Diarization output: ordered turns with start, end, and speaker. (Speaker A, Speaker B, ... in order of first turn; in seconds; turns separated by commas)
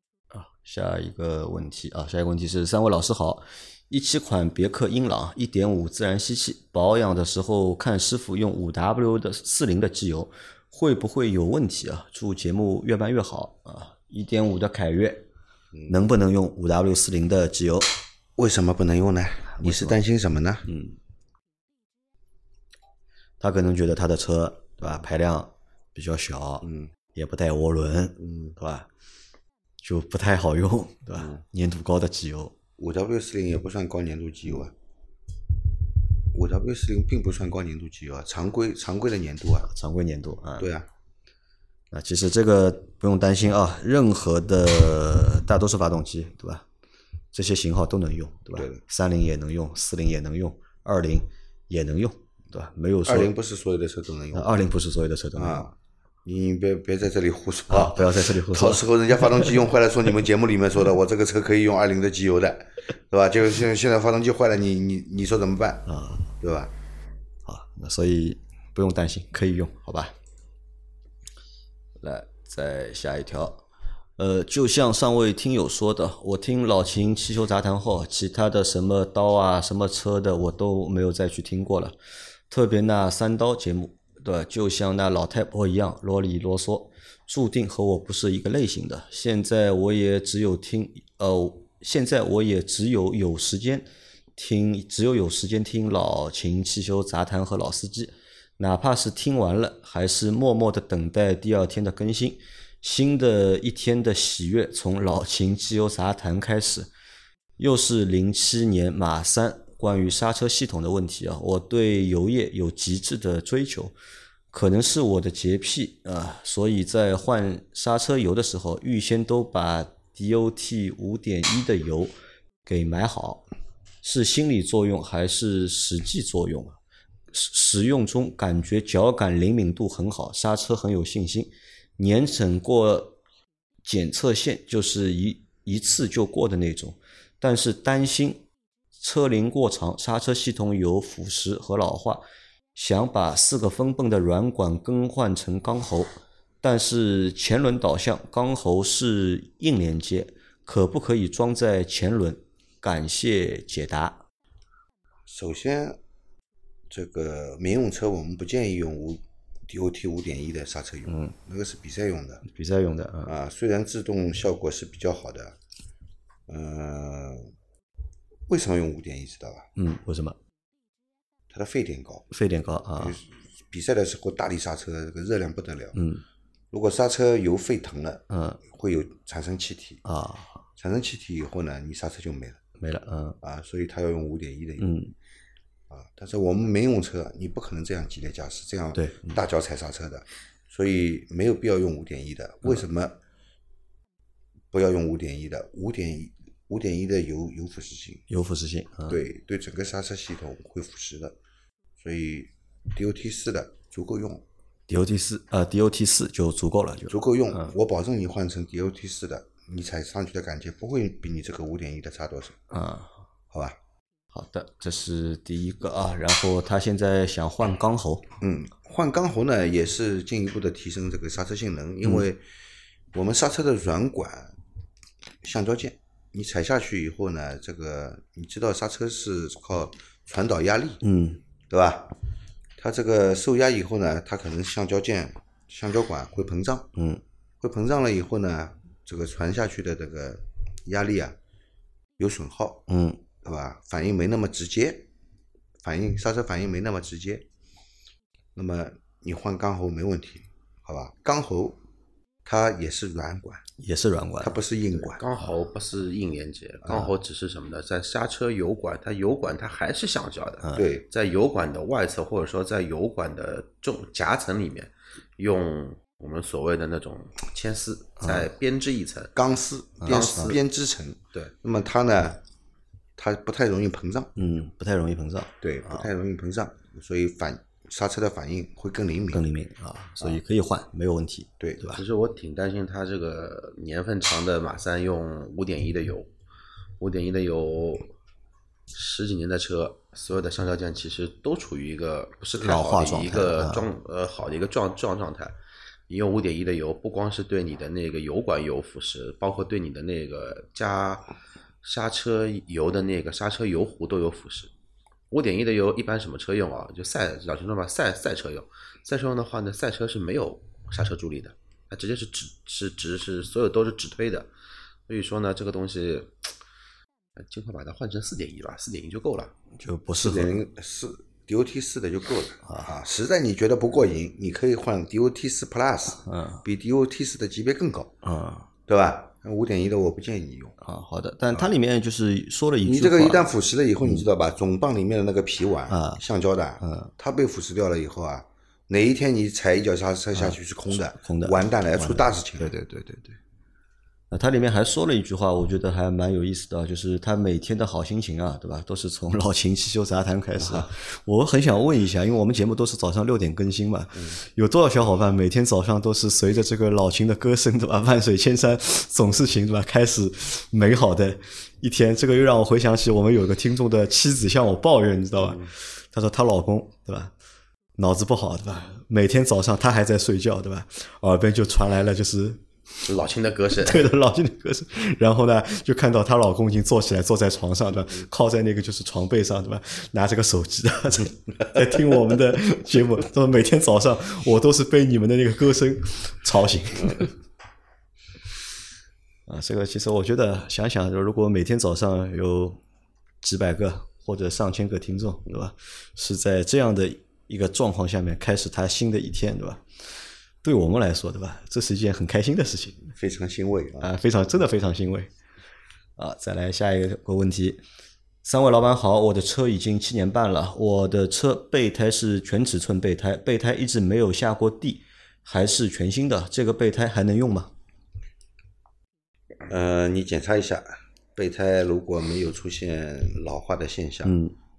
Speaker A: 0.3-15.3, Speaker B: 15.7-16.0, Speaker A: 15.9-17.9, Speaker B: 18.4-20.7, Speaker A: 19.5-20.0, Speaker A: 20.7-21.0, Speaker A: 23.4-28.9, Speaker B: 26.6-26.9, Speaker B: 28.2-28.6, Speaker A: 29.8-32.5, Speaker B: 32.8-34.7, Speaker B: 36.3-39.7, Speaker A: 39.7-40.7, Speaker B: 40.6-40.9, Speaker A: 41.9-46.7, Speaker A: 47.3-53.3, Speaker B: 48.6-48.8, Speaker B: 53.1-54.6, Speaker A: 54.3-55.7, Speaker B: 55.4-65.9, Speaker A: 57.7-59.6, Speaker A: 65.9-66.3, Speaker B: 66.4-66.7, Speaker A: 67.5-70.2, Speaker A: 72.0-73.6, Speaker A: 74.2-82.0, Speaker A: 82.5-106.9, Speaker A: 107.6-114.0, Speaker A: 114.5-122.1, Speaker A: 122.7-123.5, Speaker A: 124.0-126.8, Speaker A: 127.3-133.2, Speaker A: 133.8-138.4, Speaker A: 138.9-142.2, Speaker A: 142.8-146.1, Speaker A: 146.6-154.2, Speaker B: 155.3-156.0, Speaker B: 156.9-162.4, Speaker A: 161.1-161.3, Speaker A: 162.4-163.3, Speaker B: 163.3-165.6, Speaker B: 166.5-167.5, Speaker B: 168.5-169.7, Speaker A: 169.8-170.4, Speaker B: 171.5-172.3, Speaker A: 172.3-173.2, Speaker B: 173.0-176.0, Speaker A: 175.9-176.2, Speaker B: 176.7-180.0, Speaker A: 178.3-178.6, Speaker A: 180.1-180.7, Speaker B: 180.8-182.6, Speaker A: 182.8-183.4, Speaker B: 183.4-185.0, Speaker A: 184.8-185.1, Speaker B: 185.9-193.2, Speaker A: 188.9-189.4, Speaker B: 194.7-198.2, Speaker A: 198.3-199.2, Speaker B: 199.1-201.4, Speaker B: 202.0-204.4, Speaker A: 204.9-207.7, Speaker B: 207.1-212.6, Speaker A: 212.7-213.2, Speaker A: 214.3-218.3, Speaker B: 218.4-222.4, Speaker B: 223.1-224.5, Speaker B: 225.4-231.0, Speaker A: 231.0-231.4, Speaker B: 231.7-232.1, Speaker B: 232.8-236.9, Speaker A: 236.9-237.2, Speaker B: 237.6-241.4, Speaker B: 242.2-242.9, Speaker A: 242.9-243.2, Speaker B: 243.4-245.1, Speaker B: 245.8-247.4, Speaker B: 248.6-251.8, Speaker B: 252.4-253.6, Speaker A: 253.8-254.6, Speaker B: 254.4-255.2, Speaker C: 254.9-269.3, Speaker A: 260.6-260.9, Speaker B: 260.7-261.1, Speaker A: 268.2-268.5, Speaker B: 269.4-272.4, Speaker A: 270.0-270.6, Speaker C: 270.0-270.6, Speaker B: 273.2-274.3, Speaker A: 274.4-276.1, Speaker B: 275.6-279.4, Speaker A: 279.3-282.0, Speaker B: 281.6-281.9, Speaker C: 281.9-286.3, Speaker C: 287.0-288.1, Speaker C: 288.9-295.6, Speaker A: 292.6-293.9, Speaker C: 296.1-301.3, Speaker C: 301.8-304.7, Speaker C: 305.3-314.5, Speaker C: 315.1-316.4, Speaker C: 317.4-319.5, Speaker A: 319.8-320.6, Speaker B: 320.1-328.2, Speaker A: 322.7-323.0, Speaker A: 326.2-326.6, Speaker A: 328.2-328.7, Speaker B: 328.9-330.8, Speaker A: 330.8-333.5, Speaker B: 332.9-342.8, Speaker A: 334.0-334.3, Speaker A: 335.9-336.2, Speaker A: 336.8-337.1, Speaker A: 340.3-343.4, Speaker A: 344.3-367.3, Speaker B: 350.6-350.9, Speaker A: 368.0-373.1, Speaker C: 373.0-374.1, Speaker A: 373.8-387.3, Speaker A: 389.5-392.8, Speaker A: 393.4-403.1, Speaker B: 403.2-404.1, Speaker A: 404.0-405.3, Speaker A: 406.2-407.8, Speaker A: 408.4-417.7, Speaker B: 419.7-424.4, Speaker A: 424.2-424.6